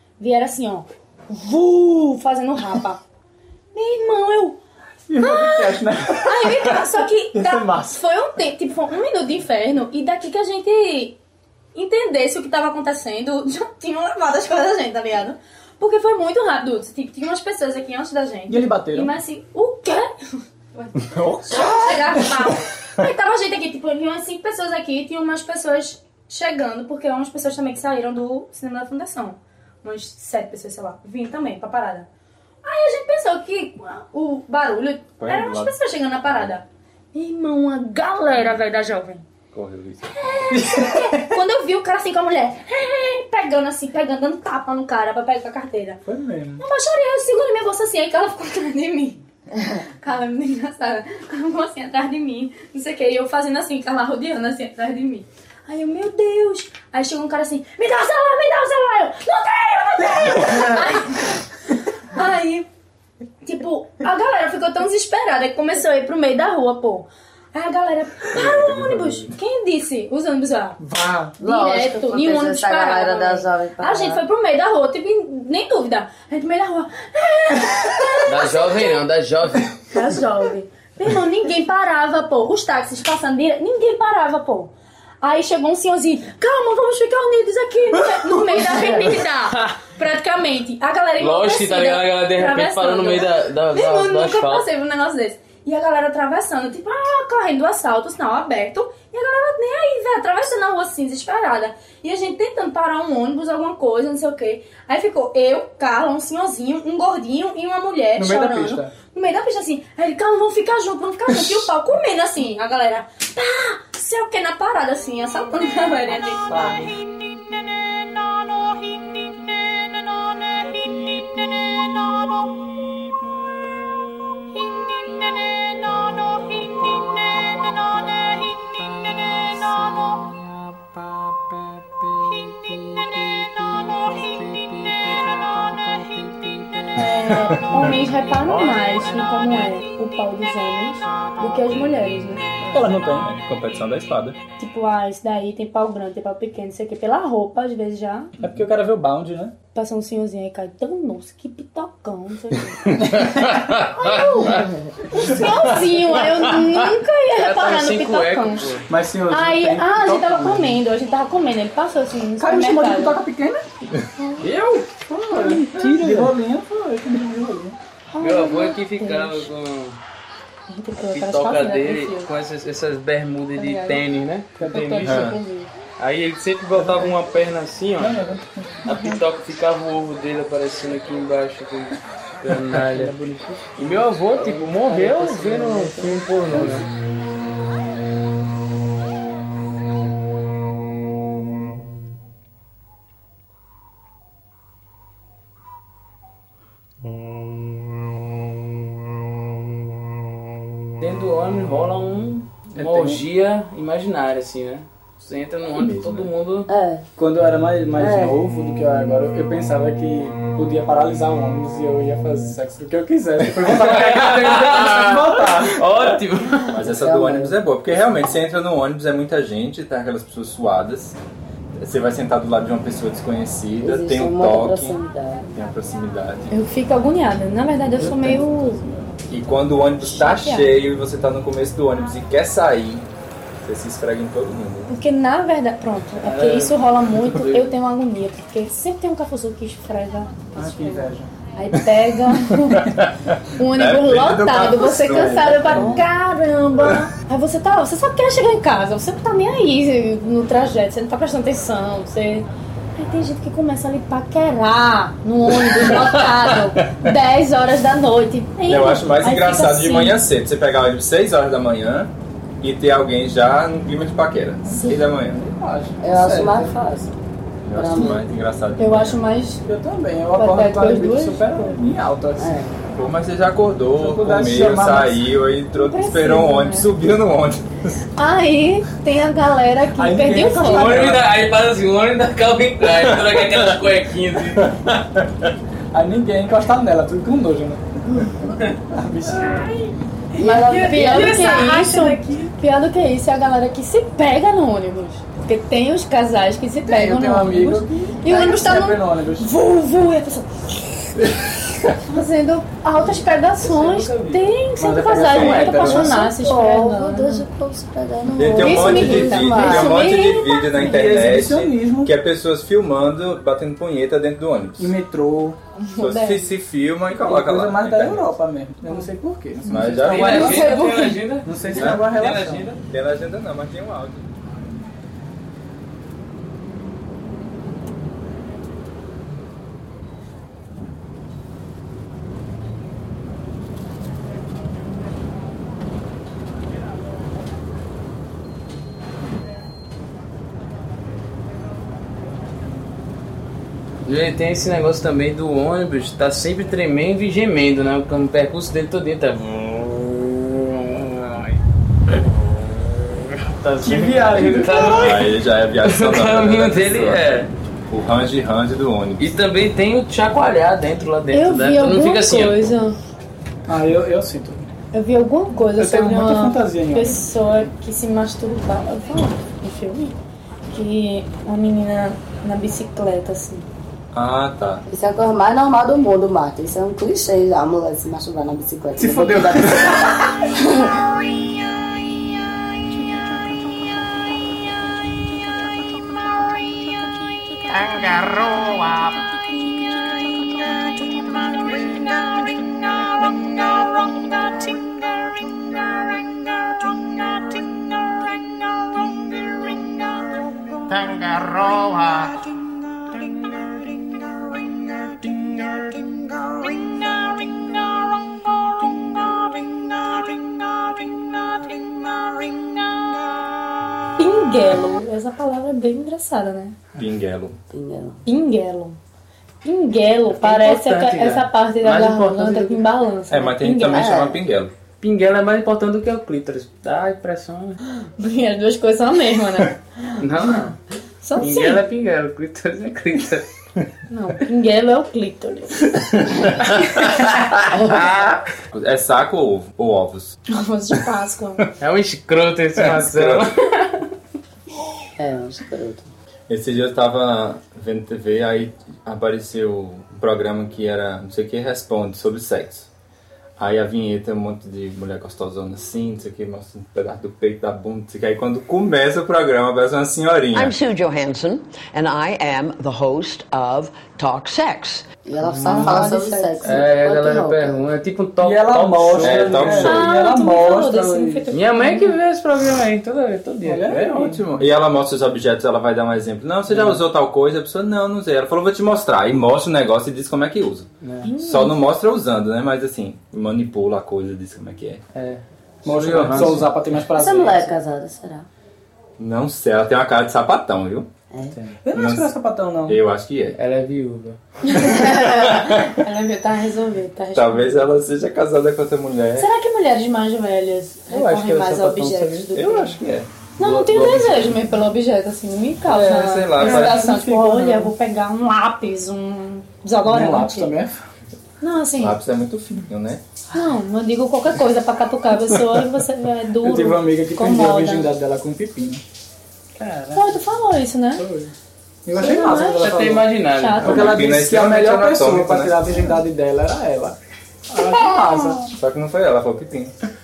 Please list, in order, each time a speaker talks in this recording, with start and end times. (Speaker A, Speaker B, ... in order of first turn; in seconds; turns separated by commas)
Speaker A: 0.2-3.0, Speaker A: 3.7-4.6, Speaker B: 5.1-6.8, Speaker A: 5.2-11.2, Speaker B: 7.3-8.0, Speaker A: 11.7-20.1, Speaker B: 18.5-19.1, Speaker A: 20.7-32.1, Speaker B: 21.2-21.9, Speaker A: 32.6-39.2, Speaker C: 35.2-35.7, Speaker C: 38.3-38.6, Speaker C: 39.5-40.6, Speaker A: 40.2-46.0, Speaker B: 40.5-41.4, Speaker B: 46.0-46.6, Speaker A: 46.6-49.2, Speaker A: 49.8-62.7, Speaker A: 63.4-70.8, Speaker C: 68.4-69.3, Speaker B: 70.8-71.4, Speaker A: 71.4-79.0, Speaker D: 71.4-74.2, Speaker E: 78.2-79.8, Speaker A: 79.9-116.9, Speaker E: 88.8-89.8, Speaker E: 91.2-94.6, Speaker B: 108.2-108.9, Speaker B: 116.5-116.8, Speaker A: 136.9-142.5, Speaker B: 142.6-143.3, Speaker C: 143.1-144.4, Speaker A: 144.6-148.3, Speaker B: 148.4-149.5, Speaker A: 149.7-153.1, Speaker B: 153.0-153.6, Speaker E: 153.3-153.7, Speaker A: 153.8-158.7, Speaker B: 155.2-155.8, Speaker E: 156.1-158.9, Speaker B: 158.9-160.8, Speaker A: 159.3-163.2, Speaker B: 162.4-163.7, Speaker A: 164.2-164.5, Speaker E: 164.4-164.9, Speaker B: 165.1-167.8, Speaker E: 165.5-166.3, Speaker A: 168.1-169.4, Speaker E: 168.2-170.0, Speaker A: 170.7-172.3, Speaker E: 171.0-175.1, Speaker A: 173.6-174.0, Speaker B: 174.6-175.2, Speaker A: 174.7-175.7, Speaker C: 175.0-175.4, Speaker E: 176.0-178.2, Speaker B: 176.8-177.1, Speaker B: 177.9-179.2, Speaker E: 178.9-183.2, Speaker B: 182.8-183.7, Speaker E: 183.8-186.9, Speaker B: 184.3-186.9, Speaker E: 201.0-206.7, Speaker B: 202.7-203.2, Speaker C: 205.8-206.3, Speaker D: 206.7-207.1, Speaker B: 207.2-216.1, Speaker D: 208.0-208.4, Speaker E: 213.6-216.8, Speaker D: 216.7-217.6, Speaker C: 216.7-221.2, Speaker C: 221.8-225.0, Speaker D: 223.8-225.6, Speaker C: 225.5-226.5, Speaker A: 226.5-228.8, Speaker C: 228.0-228.3, Speaker C: 229.3-233.1, Speaker A: 230.1-230.7, Speaker C: 233.6-234.9, Speaker A: 234.9-242.9, Speaker E: 236.1-237.8, Speaker B: 240.6-241.3, Speaker C: 242.9-246.0, Speaker A: 243.6-260.2, Speaker C: 255.6-256.4, Speaker C: 258.7-265.4, Speaker A: 264.6-265.0, Speaker B: 265.2-266.8, Speaker D: 266.0-267.1, Speaker C: 267.6-269.2, Speaker D: 267.7-268.2, Speaker A: 268.8-269.6, Speaker B: 269.6-272.6, Speaker A: 270.3-271.8, Speaker D: 272.4-272.7, Speaker C: 272.9-277.7, Speaker B: 273.9-275.2, Speaker A: 275.7-276.9, Speaker A: 278.2-281.1, Speaker B: 280.0-281.3, Speaker E: 280.5-285.1, Speaker B: 285.9-288.3, Speaker B: 288.9-289.8, Speaker E: 289.3-292.5, Speaker D: 290.4-291.5, Speaker A: 290.4-301.1, Speaker B: 296.9-299.5, Speaker A: 302.0-307.4, Speaker E: 303.0-304.6, Speaker B: 304.8-306.2, Speaker C: 305.2-305.8, Speaker D: 305.8-309.9, Speaker C: 308.4-314.9, Speaker A: 308.4-311.2, Speaker B: 310.8-312.1, Speaker B: 314.8-315.6, Speaker A: 315.8-316.5, Speaker C: 316.0-318.4, Speaker B: 317.1-320.7, Speaker C: 319.7-320.8, Speaker A: 319.7-321.2, Speaker E: 319.9-322.7, Speaker B: 321.4-322.8, Speaker C: 321.7-322.1, Speaker C: 322.8-324.3, Speaker E: 344.0-351.6, Speaker E: 352.1-357.5, Speaker B: 353.8-355.2, Speaker C: 354.9-357.2, Speaker C: 357.9-359.3, Speaker E: 359.2-362.7, Speaker A: 361.3-363.0, Speaker B: 363.7-364.7, Speaker A: 364.9-370.2, Speaker B: 365.8-367.2, Speaker A: 370.7-373.7, Speaker C: 374.1-374.8, Speaker D: 374.9-381.0, Speaker B: 379.0-380.2, Speaker A: 414.2-416.8, Speaker C: 417.0-417.6, Speaker D: 417.7-418.2, Speaker A: 418.2-419.0, Speaker A: 419.6-424.1, Speaker E: 420.3-422.8, Speaker C: 423.3-424.7, Speaker D: 423.9-424.4, Speaker E: 425.0-427.8, Speaker A: 427.9-430.2, Speaker E: 430.2-430.8, Speaker A: 431.2-431.8, Speaker E: 431.4-433.5, Speaker A: 434.1-436.2, Speaker E: 437.9-438.3, Speaker C: 438.7-440.4, Speaker A: 440.5-441.6, Speaker E: 441.8-443.7, Speaker C: 442.8-443.5, Speaker D: 445.2-446.1, Speaker C: 446.5-452.9, Speaker C: 453.6-460.8, Speaker F: 460.5-465.1, Speaker D: 465.2-467.8, Speaker E: 465.4-465.9, Speaker A: 465.7-466.8, Speaker B: 465.7-466.0, Speaker E: 466.6-469.7, Speaker B: 468.4-471.5, Speaker C: 469.2-470.1, Speaker A: 469.7-472.2, Speaker E: 471.5-473.9, Speaker B: 473.6-474.4, Speaker C: 473.9-480.9, Speaker E: 476.7-477.0, Speaker E: 481.0-481.3, Speaker A: 481.2-481.8, Speaker C: 481.4-485.0, Speaker E: 485.1-486.7, Speaker B: 485.9-487.7, Speaker D: 487.1-488.5, Speaker C: 489.2-491.1, Speaker B: 491.8-493.0, Speaker C: 491.9-492.3, Speaker C: 492.9-493.6, Speaker E: 493.5-494.4, Speaker A: 494.6-497.9, Speaker C: 494.9-495.8, Speaker C: 497.4-499.5, Speaker A: 499.4-503.0, Speaker E: 501.1-502.5, Speaker C: 502.5-503.3, Speaker A: 503.6-510.7, Speaker E: 503.6-504.7, Speaker C: 505.9-507.1, Speaker B: 506.6-507.9, Speaker B: 510.1-511.0, Speaker A: 511.6-512.2, Speaker C: 512.0-513.2, Speaker A: 513.5-518.1, Speaker B: 516.6-519.0, Speaker E: 519.8-520.4, Speaker A: 520.1-521.2, Speaker B: 521.1-521.5, Speaker B: 522.0-523.3, Speaker E: 522.1-524.1, Speaker A: 522.3-522.9, Speaker A: 523.5-524.2, Speaker B: 523.8-527.2, Speaker C: 524.0-525.8, Speaker B: 527.7-528.7, Speaker A: 528.2-528.5, Speaker C: 528.7-529.9